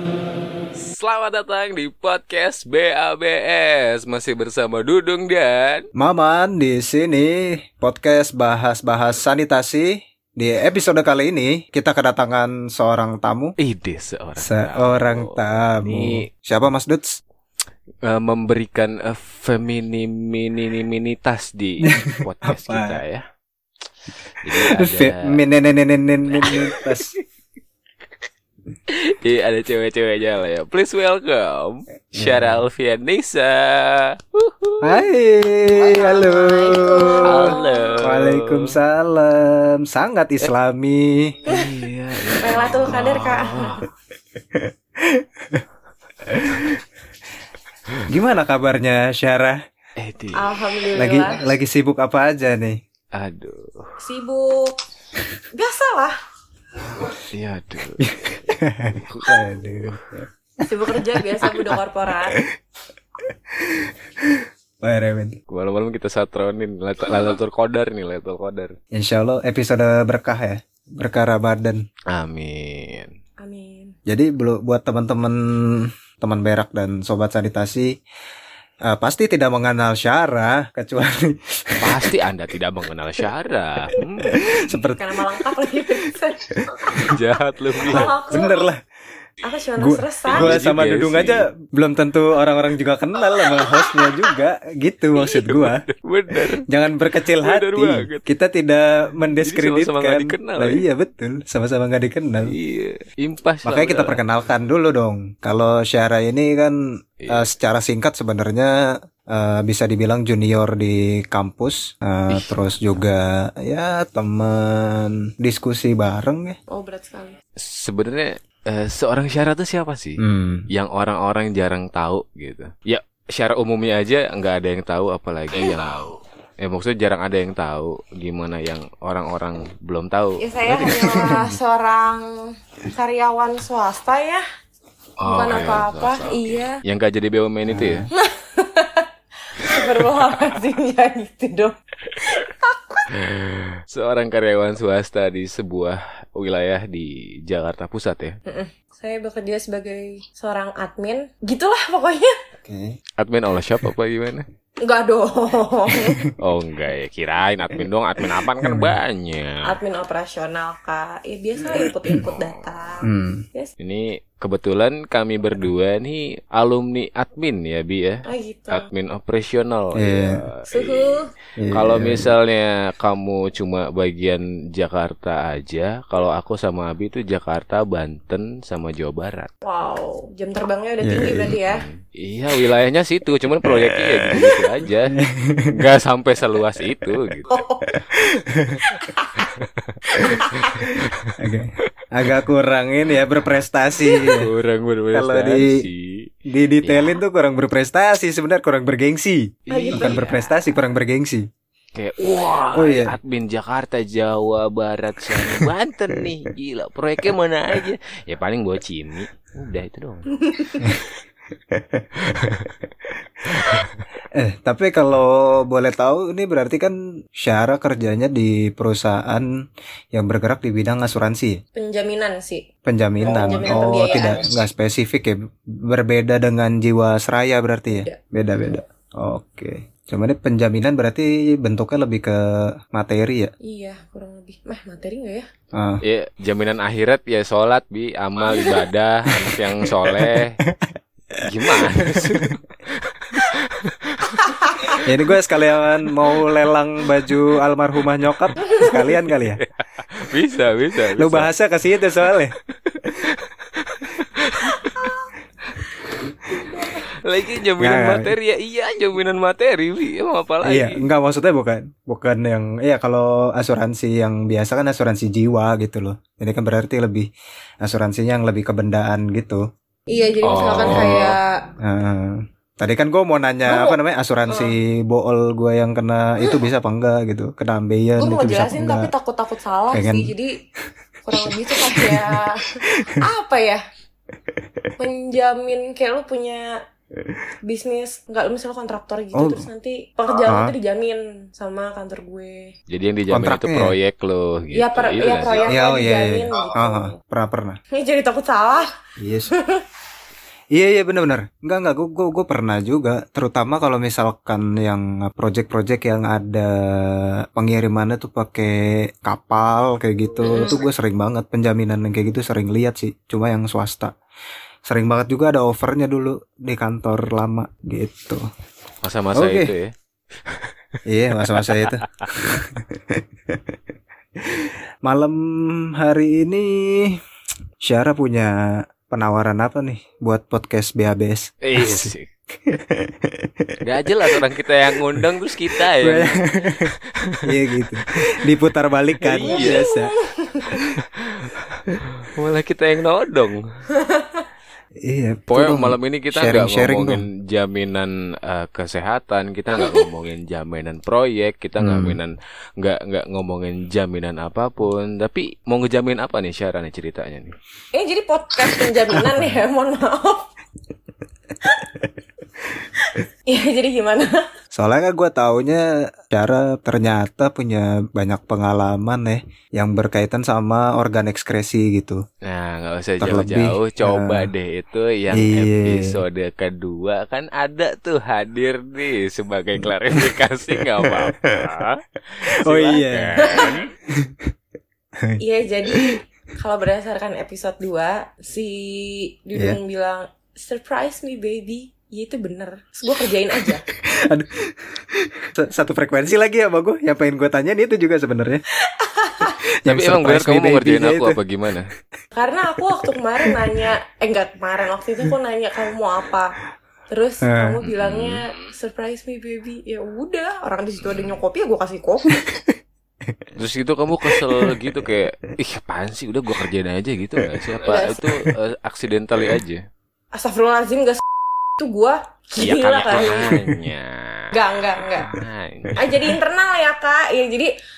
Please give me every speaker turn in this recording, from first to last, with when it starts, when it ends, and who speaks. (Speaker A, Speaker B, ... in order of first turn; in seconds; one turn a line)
Speaker A: 0.9-5.9
Speaker B: 6.0-13.6
Speaker A: 13.6-16.3
Speaker B: 14.4-17.2
Speaker A: 18.0-23.2
Speaker B: 21.9-23.0
Speaker A: 24.4-25.4
Speaker B: 24.5-27.1
Speaker A: 26.3-27.1
Speaker A: 28.9-35.0
Speaker B: 32.2-32.6
Speaker B: 34.8-41.4
Speaker C: 35.8-38.0
Speaker A: 37.2-38.8
Speaker A: 41.5-43.9
Speaker C: 41.5-41.7
Speaker C: 42.4-43.8
Speaker B: 44.5-45.6
Speaker B: 46.2-46.8
Speaker B: 48.1-49.6
Speaker A: 50.0-50.6
Speaker C: 50.4-51.4
Speaker B: 51.0-52.8
Speaker A: 53.1-54.0
Speaker C: 54.0-54.8
Speaker C: 55.6-56.2
Speaker A: 57.3-60.0
Speaker B: 58.0-60.3
Speaker C: 60.6-62.4
Speaker B: 61.4-61.8
Speaker B: 63.2-65.4
Speaker A: 65.5-68.8
Speaker B: 68.9-71.8
Speaker A: 72.1-73.1
Speaker C: 73.4-74.0
Speaker B: 74.1-78.0
Speaker B: 78.9-82.1
Speaker A: 81.8-84.8
Speaker B: 84.2-85.8
Speaker C: 85.0-86.4
Speaker B: 86.5-87.1
Speaker A: 87.0-88.2
Speaker B: 87.8-88.8
Speaker C: 87.9-88.5
Speaker C: 89.4-90.6
Speaker B: 89.8-95.8
Speaker A: 90.3-91.5
Speaker C: 93.5-94.0
Speaker A: 95.2-96.6
Speaker B: 96.7-102.5
Speaker A: 97.4-98.2
Speaker A: 99.4-100.8
Speaker A: 102.5-104.2
Speaker B: 103.6-106.8
Speaker A: 107.2-107.5
Speaker B: 107.3-116.6
Speaker A: 112.3-112.7
Speaker C: 116.7-117.4
Speaker A: 117.6-130.9
Speaker B: 120.2-120.7
Speaker C: 130.4-134.4
Speaker B: 130.9-131.5
Speaker A: 135.2-138.1
Speaker C: 135.2-136.8
Speaker B: 137.7-138.1
Speaker C: 138.2-143.0
Speaker A: 143.1-148.4
Speaker C: 148.5-152.3
Speaker B: 152.6-153.0
Speaker A: 153.2-154.5
Speaker C: 154.8-156.2
Speaker A: 156.4-159.7
Speaker B: 158.6-159.0
Speaker C: 159.6-163.7
Speaker A: 162.1-162.9
Speaker B: 163.0-163.4
Speaker A: 163.8-179.5
Speaker C: 168.3-168.9
Speaker B: 169.9-170.4
Speaker C: 170.7-171.3
Speaker B: 171.6-172.3
Speaker C: 179.7-181.8
Speaker B: 181.0-181.6
Speaker A: 181.7-185.2
Speaker B: 183.7-184.5
Speaker B: 185.1-185.7
Speaker A: 185.7-187.5
Speaker C: 187.5-187.9
Speaker B: 187.9-188.8
Speaker C: 188.9-189.5
Speaker A: 189.4-190.0
Speaker C: 190.1-190.9
Speaker B: 190.2-194.5
Speaker A: 190.5-191.4
Speaker A: 194.2-196.3
Speaker B: 195.1-195.9
Speaker B: 196.5-201.4
Speaker A: 196.8-197.2
Speaker A: 199.7-200.6
Speaker C: 199.7-200.3
Speaker A: 202.0-211.0
Speaker B: 202.7-203.2
Speaker B: 205.3-206.3
Speaker C: 210.4-210.9
Speaker B: 211.7-212.6
Speaker A: 212.2-212.7
Speaker B: 213.5-219.5
Speaker A: 213.5-214.0
Speaker B: 220.1-221.6
Speaker C: 221.8-222.7
Speaker B: 222.9-233.5
Speaker C: 223.2-224.5
Speaker C: 227.9-228.2
Speaker C: 233.6-235.5
Speaker B: 235.7-236.0
Speaker A: 236.0-240.6
Speaker C: 238.4-238.8
Speaker B: 239.5-242.6
Speaker A: 241.4-244.4
Speaker C: 244.3-245.0
Speaker B: 245.0-249.6
Speaker C: 248.6-249.0
Speaker A: 249.6-251.5
Speaker B: 251.2-252.6
Speaker A: 252.0-255.1
Speaker C: 254.6-255.2
Speaker C: 256.5-257.0
Speaker A: 257.2-261.0
Speaker B: 257.8-258.3
Speaker B: 260.6-267.3
Speaker B: 267.8-269.6
Speaker C: 270.1-271.6
Speaker A: 270.4-271.4
Speaker B: 270.8-271.2
Speaker B: 271.8-279.1
Speaker C: 273.7-274.8
Speaker C: 278.2-280.5
Speaker B: 279.9-280.3
Speaker C: 281.2-283.8
Speaker B: 281.4-283.2
Speaker B: 284.5-284.9
Speaker C: 285.0-286.6
Speaker C: 287.6-292.7
Speaker B: 289.4-289.7
Speaker B: 290.4-290.7
Speaker A: 292.9-295.7
Speaker B: 293.3-294.0
Speaker C: 294.7-297.1
Speaker B: 295.6-297.8
Speaker C: 297.9-298.9
Speaker B: 299.2-299.5
Speaker C: 299.5-299.8
Speaker B: 300.8-314.1
Speaker C: 310.4-310.8
Speaker B: 314.9-318.4
Speaker A: 319.0-319.9
Speaker B: 319.4-319.7
Speaker A: 320.4-320.7
Speaker B: 321.1-323.8
Speaker A: 321.4-322.3
Speaker B: 324.4-327.2
Speaker B: 327.8-332.1
Speaker A: 331.6-332.3
Speaker B: 332.6-336.9
Speaker A: 333.8-338.5
Speaker B: 337.4-340.1
Speaker A: 339.2-339.9
Speaker C: 339.5-340.8
Speaker A: 340.7-343.7
Speaker C: 344.0-344.4
Speaker B: 345.1-347.2
Speaker A: 345.5-357.5
Speaker B: 351.8-352.2
Speaker C: 357.9-360.5
Speaker B: 359.2-359.5
Speaker C: 363.0-364.5
Speaker B: 364.7-372.2
Speaker A: 372.4-383.9
Speaker B: 373.2-374.5
Speaker B: 375.3-376.2
Speaker B: 381.0-381.8
Speaker B: 382.6-384.5
Speaker C: 383.4-383.8
Speaker C: 385.4-393.8
Speaker B: 393.9-398.6
Speaker C: 398.9-399.6
Speaker B: 399.8-401.4
Speaker A: 399.9-401.9
Speaker C: 402.4-406.6
Speaker B: 402.8-403.8
Speaker C: 407.1-412.4
Speaker B: 407.4-407.8
Speaker A: 407.9-408.7
Speaker A: 411.1-411.3
Speaker B: 412.3-413.5
Speaker A: 413.6-419.8
Speaker B: 414.2-414.9
Speaker B: 417.4-418.5
Speaker C: 417.8-418.2
Speaker C: 420.4-421.2
Speaker C: 421.8-423.5
Speaker A: 422.6-426.1
Speaker B: 423.5-423.8
Speaker C: 424.5-425.4
Speaker B: 425.9-426.3
Speaker C: 426.0-427.7